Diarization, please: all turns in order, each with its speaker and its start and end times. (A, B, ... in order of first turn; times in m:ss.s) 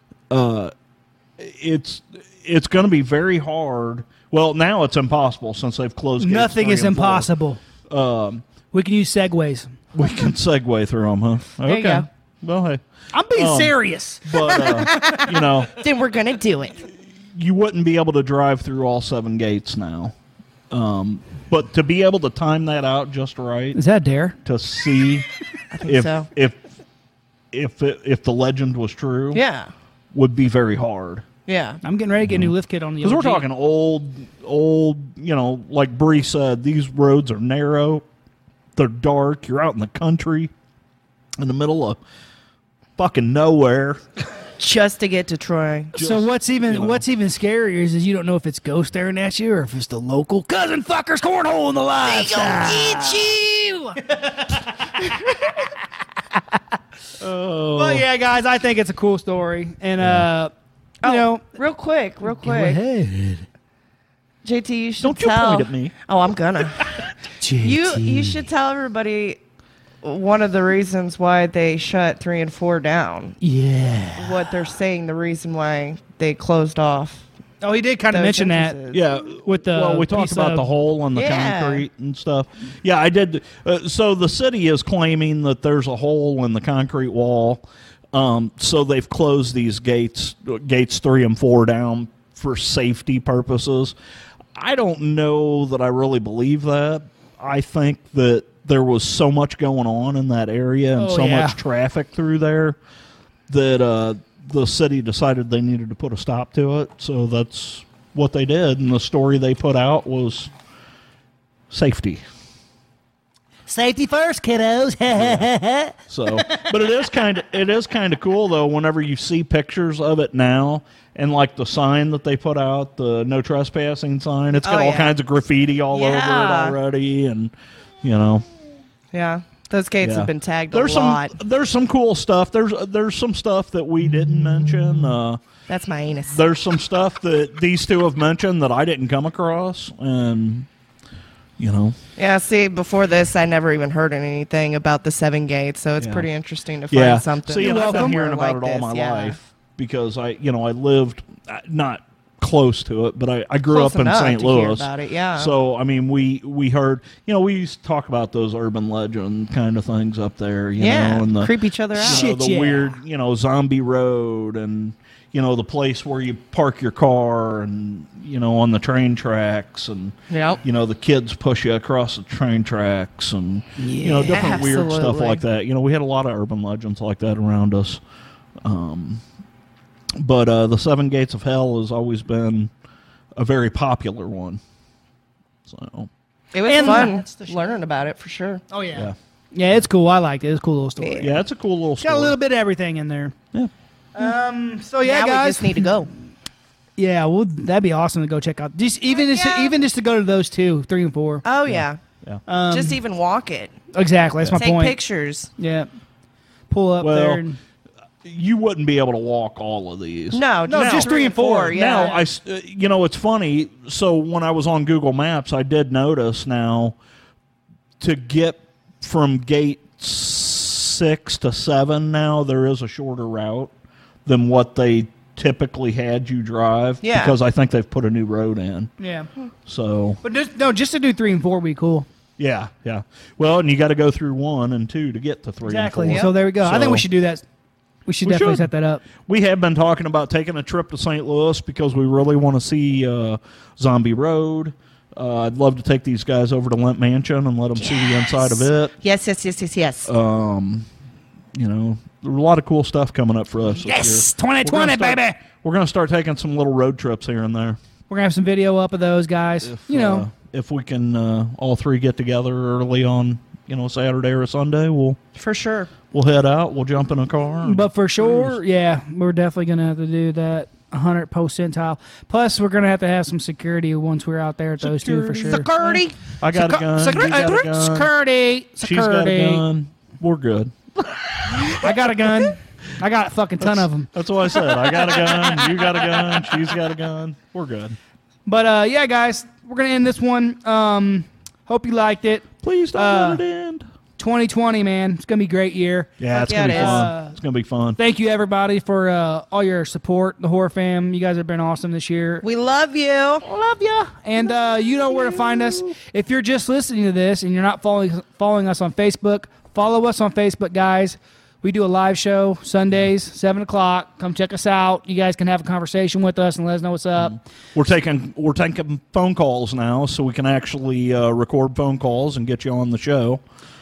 0:00.3-0:00.7 A
0:01.4-0:07.3 A
0:06.2-0:07.6 B
0:07.9-0:08.4 A
0:08.7-0:09.8 B
0:09.9-0:12.8 A
0:11.7-0:12.1 C
0:13.1-0:14.8 B
0:13.3-0:15.8 A
0:14.4-0:16.8 C
0:17.3-0:20.2 A
0:20.7-0:23.8 A
0:23.7-0:24.4 B
0:24.4-0:25.3 A
0:25.7-0:26.3 C
0:25.8-0:26.6 A
0:27.5-0:29.4 A
0:29.3-0:29.7 C
0:30.1-0:31.2 A
0:31.5-0:31.8 C
0:31.8-0:33.5 B
0:32.2-0:38.0 A
0:38.8-0:40.5 A
0:41.4-0:42.0 A
0:43.0-0:44.1 A
0:44.6-0:45.9 C
0:45.9-0:47.0 A
0:46.0-0:55.6 B
0:52.0-0:53.9 C
0:57.2-0:58.1 A
0:57.7-1:01.5 B
1:00.0-1:00.3 A
1:01.0-1:02.8 C
1:02.3-1:03.4 B
1:04.4-1:07.0 C
1:05.0-1:05.9 A
1:07.4-1:08.5 B
1:07.6-1:09.4 C
1:10.0-1:13.4 C
1:13.4-1:14.5 B
1:14.2-1:17.2 C
1:17.6-1:18.8 B
1:18.1-1:19.0 C
1:18.9-1:34.0 A
1:19.4-1:20.7 B
1:21.1-1:21.9 C
1:34.5-1:42.8 A
1:41.0-1:41.6 B
1:43.5-1:50.5 A
1:51.7-1:52.2 A
1:53.7-1:56.7 B
1:55.1-1:55.5 A
1:56.1-2:08.5 A
2:04.6-2:05.2 C
2:05.9-2:06.8 C
2:09.1-2:11.3 C
2:10.0-2:15.4 A
2:15.7-2:16.4 C
2:16.3-2:20.7 A
2:21.6-2:22.0 A
2:22.2-2:29.4 C
2:26.0-2:26.3 A
2:26.9-2:58.0 A
2:27.6-2:28.2 B
2:33.7-2:35.5 C
2:40.8-2:42.3 C
2:42.0-2:43.0 B
2:50.3-2:50.6 C
2:53.8-2:54.1 B
2:53.9-2:55.4 C
2:58.6-2:59.2 A
3:00.2-3:02.7 A
3:03.4-3:04.6 A
3:05.6-3:06.1 A
3:06.5-3:08.6 C
3:06.6-3:07.8 B
3:08.7-3:11.4 B
3:11.0-3:11.3 C
3:11.2-3:12.4 A
3:12.0-3:13.4 B
3:14.2-3:16.1 B
3:15.0-3:16.1 C
3:17.0-3:21.4 B
3:19.1-3:19.8 C
3:21.4-3:22.0 C
3:21.7-3:22.4 A
3:22.5-3:23.0 B
3:22.7-3:23.8 C
3:23.9-3:25.0 B
3:24.5-3:25.5 C
3:25.6-3:25.9 B
3:26.7-3:27.6 B
3:27.0-3:27.4 A
3:28.2-3:37.0 A
3:30.3-3:32.2 C
3:30.7-3:32.2 B
3:38.0-3:43.7 A
3:44.3-3:48.9 A
3:47.0-3:47.4 C
3:49.0-3:49.3 B
3:49.7-3:50.2 A
3:50.2-3:52.1 B
3:52.4-3:57.1 A
3:55.6-3:57.4 B
3:58.1-3:59.0 B
3:58.2-3:58.7 A
3:59.2-4:08.9 A
4:07.8-4:10.1 C
4:10.1-4:10.9 A
4:11.5-4:17.8 A
4:13.8-4:15.4 B
4:18.1-4:20.3 B
4:19.6-4:25.2 A
4:25.4-4:25.9 C
4:26.1-4:28.6 A
4:27.6-4:35.7 B
4:34.8-4:38.1 A
4:35.4-4:36.2 C
4:36.5-4:39.6 B
4:38.8-4:40.8 A
4:41.7-4:46.2 B
4:43.6-4:48.0 A
4:48.5-4:53.4 B
4:52.6-4:53.8 A
4:54.2-4:57.4 B
4:56.2-4:58.0 A
4:56.4-4:57.1 C
4:58.0-5:02.4 B
5:02.4-5:03.4 C
5:03.4-5:17.4 B
5:17.2-5:23.4 A